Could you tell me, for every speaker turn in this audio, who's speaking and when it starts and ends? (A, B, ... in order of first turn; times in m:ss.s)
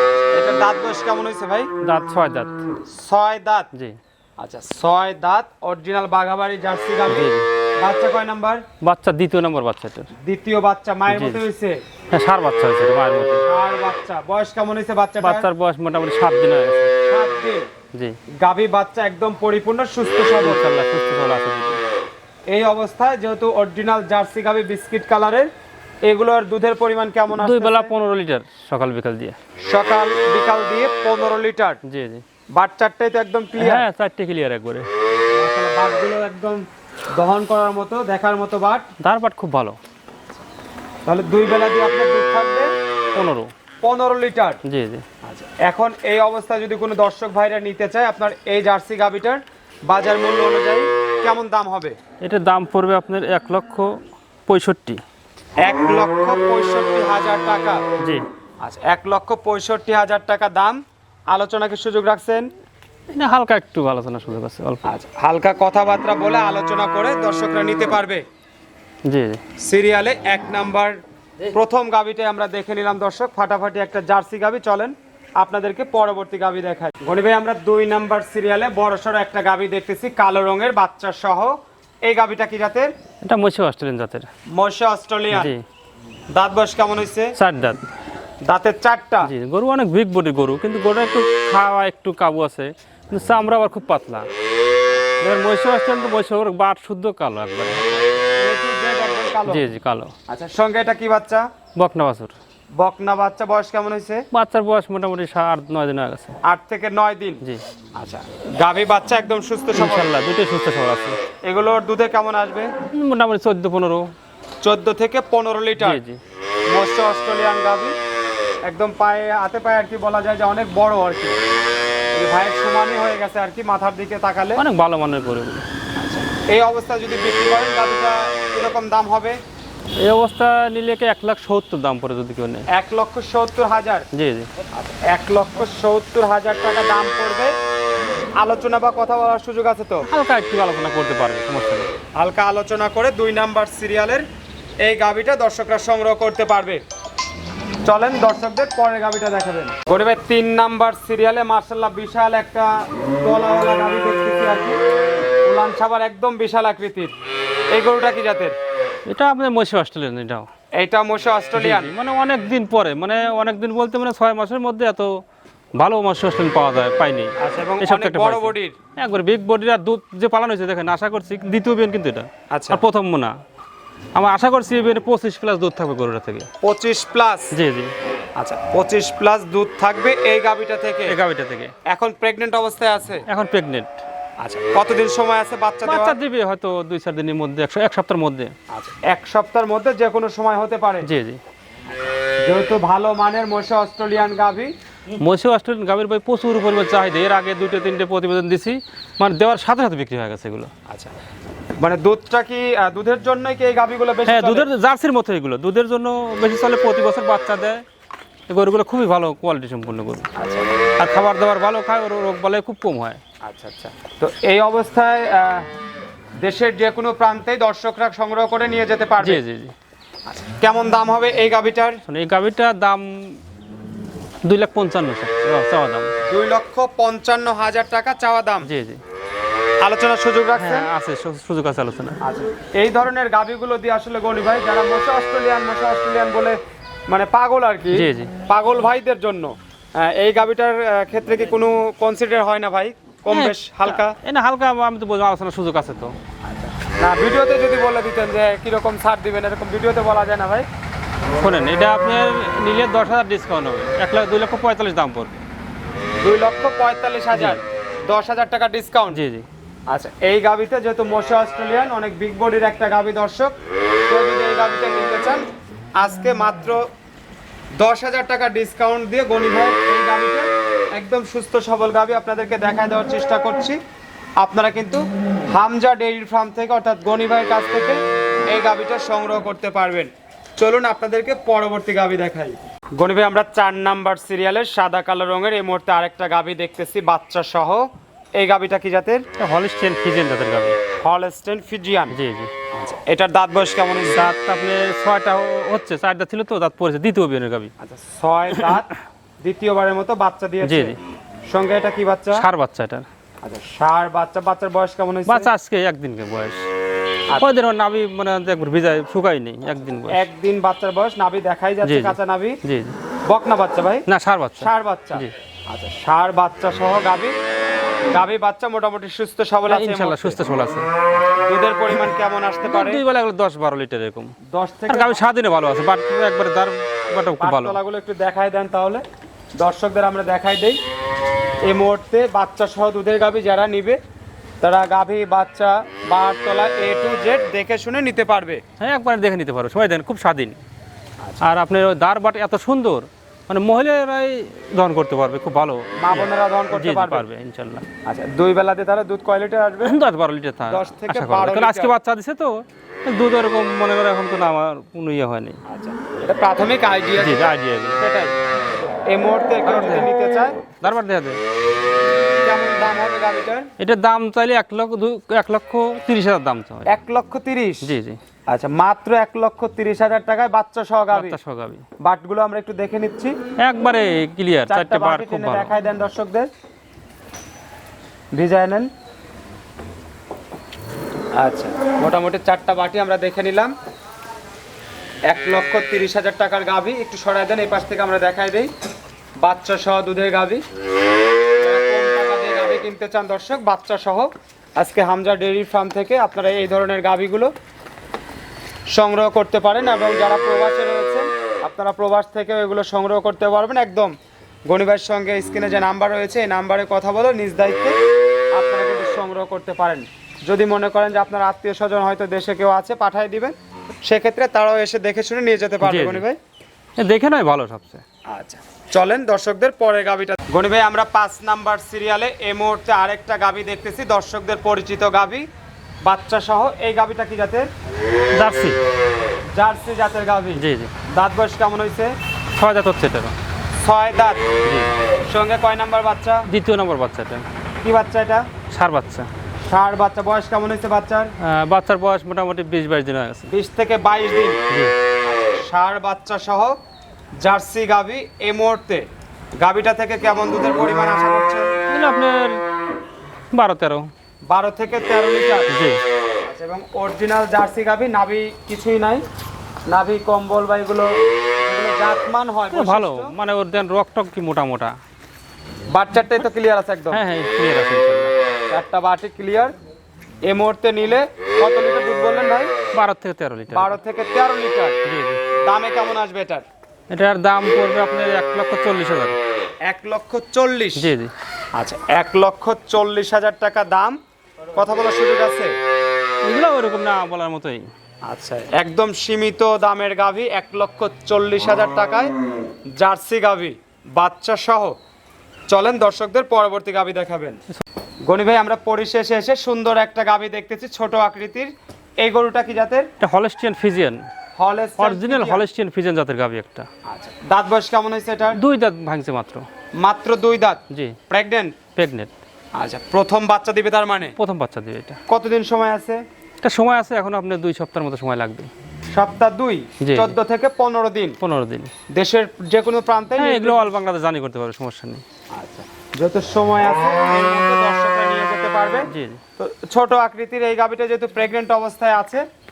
0:00.3-0:01.7 A
0:01.8-0:02.6 B
0:02.8-0:03.7 A
0:04.4-0:08.6 A
0:07.1-0:07.5 B
0:08.8-0:10.1 B
0:10.2-0:11.8 A
0:11.1-0:11.4 B
0:12.1-0:13.4 B
0:13.4-0:15.5 A
0:15.2-0:16.9 B
0:17.0-0:17.7 A
0:17.9-0:18.2 B
0:18.4-0:20.6 A
0:20.4-0:21.8 B
0:22.5-0:25.5 A
0:26.0-0:27.9 A
0:27.3-0:29.4 B
0:29.7-0:31.8 A
0:31.8-0:32.2 B
0:32.5-0:33.8 A
0:33.6-0:34.9 B
0:35.3-0:38.9 A
0:39.0-0:39.8 B
0:41.0-0:42.7 A
0:43.1-0:43.5 B
0:43.8-0:44.6 A
0:44.6-0:45.0 B
0:45.2-0:52.0 A
0:52.2-0:53.9 B
0:54.5-0:55.0 B
0:55.6-0:57.8 A
0:58.0-0:58.2 B
0:58.6-1:02.5 A
1:03.1-1:04.9 B
1:04.8-1:08.2 A
1:09.0-1:09.4 B
1:09.6-1:22.9 A
1:23.2-1:24.3 B
1:24.5-1:25.5 A
1:25.3-1:25.6 B
1:26.3-1:27.3 A
1:27.4-1:27.8 B
1:28.5-1:29.3 A
1:29.2-1:34.3 B
1:35.2-1:37.8 B
1:38.3-1:39.6 A
1:39.5-1:40.1 B
1:40.3-1:41.5 A
1:41.8-1:42.3 B
1:42.8-1:44.2 A
1:44.3-1:46.4 B
1:46.4-1:47.4 A
1:48.0-1:50.1 A
1:49.7-1:51.2 B
1:51.4-1:52.7 A
1:52.8-1:54.1 B
1:54.6-1:56.0 A
1:55.8-1:56.2 B
1:56.7-1:57.9 A
1:58.6-2:01.4 A
2:02.1-2:04.6 A
2:04.6-2:05.6 B
2:06.0-2:09.4 A
2:10.0-2:12.7 B
2:12.7-2:14.1 A
2:14.1-2:14.5 B
2:14.7-2:17.5 A
2:18.4-2:20.1 A
2:20.0-2:21.9 B
2:22.2-2:24.2 A
2:24.8-2:26.8 A
2:27.8-2:34.8 A
2:35.4-2:37.1 A
2:37.7-2:38.5 A
2:39.1-2:40.5 B
2:40.7-2:41.9 A
2:41.6-2:45.1 B
2:45.8-2:53.3 B
2:47.4-2:48.8 A
2:52.5-2:52.8 A
2:54.1-2:56.5 B
2:56.6-2:57.5 A
2:57.5-2:57.9 B
2:58.4-3:01.1 A
3:01.1-3:01.7 B
3:01.8-3:03.2 A
3:03.3-3:03.9 B
3:04.4-3:06.2 A
3:05.8-3:08.5 B
3:08.7-3:11.1 A
3:11.0-3:11.4 B
3:11.9-3:14.7 A
3:15.2-3:20.7 B
3:20.9-3:21.1 A
3:21.8-3:24.7 A
3:24.3-3:27.8 B
3:28.5-3:30.3 B
3:30.4-3:30.7 A
3:31.0-3:33.2 B
3:33.4-3:35.7 A
3:36.4-3:39.4 A
3:39.2-3:39.7 B
3:40.3-3:42.0 A
3:42.1-3:43.4 B
3:44.4-3:46.1 B
3:46.2-3:48.7 A
3:48.6-3:49.0 B
3:49.8-3:50.9 A
3:50.6-3:52.2 B
3:52.2-3:56.6 A
3:57.1-4:04.2 A
3:57.9-3:58.3 B
4:03.3-4:06.1 B
4:06.4-4:10.6 A
4:11.4-4:15.4 B
4:16.2-4:19.2 A
4:17.3-4:17.6 B
4:19.1-4:19.4 B
4:19.9-4:23.5 A
4:24.1-4:25.4 A
4:26.0-4:26.8 A
4:27.8-4:33.8 A
4:34.4-4:49.2 A
4:49.4-4:50.8 B
4:51.0-4:52.2 A
4:52.1-4:52.5 B
4:52.7-4:54.3 A
4:54.0-4:57.7 B
4:57.8-5:02.4 A
5:00.6-5:01.0 B
5:02.3-5:03.0 B
5:03.4-5:05.5 A
5:05.3-5:06.7 B
5:07.4-5:10.3 B
5:10.1-5:12.6 A
5:11.8-5:13.0 B
5:13.3-5:14.1 A
5:14.1-5:15.3 B
5:14.6-5:17.3 A
5:18.1-5:20.4 A
5:19.7-5:20.8 B
5:21.1-5:23.0 A
5:22.6-5:24.3 B
5:24.5-5:25.2 A
5:24.9-5:27.8 B
5:27.4-5:29.0 A
5:29.6-5:30.8 A
5:31.6-5:34.0 A
5:34.6-5:38.6 A
5:38.8-5:40.6 B
5:41.4-5:47.8 B
5:46.0-5:47.2 A
5:48.0-5:50.0 A
5:49.8-5:55.6 B
5:50.7-5:51.9 A
5:55.7-5:58.4 A
5:57.2-5:58.0 B
5:59.1-6:00.6 A
5:59.6-6:00.1 B
6:00.8-6:01.4 B
6:02.4-6:03.7 A
6:03.8-6:06.8 B
6:06.9-6:07.9 A
6:07.8-6:08.2 B
6:08.5-6:11.4 A
6:11.1-6:11.8 B
6:12.0-6:13.4 A
6:13.6-6:15.7 B
6:14.7-6:16.5 A
6:18.3-6:18.9 A
6:21.4-6:23.7 A
6:25.3-6:28.7 A
6:29.4-6:30.6 A
6:31.6-6:37.5 A
6:38.9-6:44.1 A
6:44.7-6:48.0 A
6:48.5-6:56.4 A
6:55.8-6:56.2 B
6:57.0-6:58.0 B
6:58.3-7:05.4 A
7:06.0-7:07.7 A
7:08.3-7:08.8 B
7:09.5-7:12.1 A
7:10.6-7:10.9 B
7:12.6-7:13.4 B
7:13.8-7:14.4 A
7:14.6-7:14.9 B
7:15.3-7:16.5 A
7:16.5-7:17.4 B
7:17.8-7:18.5 A
7:18.7-7:19.3 B
7:19.7-7:21.3 A
7:21.4-7:23.5 B
7:23.5-7:24.6 A
7:25.4-7:26.8 A
7:27.4-7:29.0 A
7:29.6-7:31.7 A
7:31.9-7:32.6 B
7:33.5-7:34.1 B
7:34.5-7:35.7 A
7:35.7-7:36.0 B
7:36.4-7:39.2 A
7:39.9-7:41.1 A
7:41.6-7:43.3 A
7:42.7-7:45.0 B
7:45.9-7:47.2 A
7:47.1-7:48.3 B
7:48.7-7:49.7 A
7:50.4-7:52.7 A
7:52.9-7:54.0 B
7:53.7-7:55.0 A
7:55.0-7:55.4 B
7:55.6-7:56.6 A
7:57.1-7:59.4 B
7:59.8-8:01.1 A
8:01.0-8:01.3 B
8:01.8-8:04.2 A
8:04.8-8:05.7 A
8:06.4-8:07.9 B
8:08.3-8:12.3 A
8:13.0-8:15.0 A
8:15.7-8:17.6 A
8:18.2-8:23.1 A
8:23.2-8:24.3 B
8:24.6-8:25.6 A
8:25.0-8:26.9 B
8:27.1-8:28.6 A
8:28.6-8:29.6 B
8:30.0-8:31.8 A
8:30.9-8:31.2 B
8:32.0-8:32.3 B
8:32.7-8:34.3 A
8:34.4-8:35.2 B
8:35.3-8:36.2 A
8:36.6-8:38.7 B
8:39.1-8:41.4 A
8:40.0-8:40.4 B
8:41.4-8:41.9 B
8:42.1-8:43.9 A
8:43.4-8:45.2 B
8:45.5-8:52.4 A
8:49.1-8:49.4 B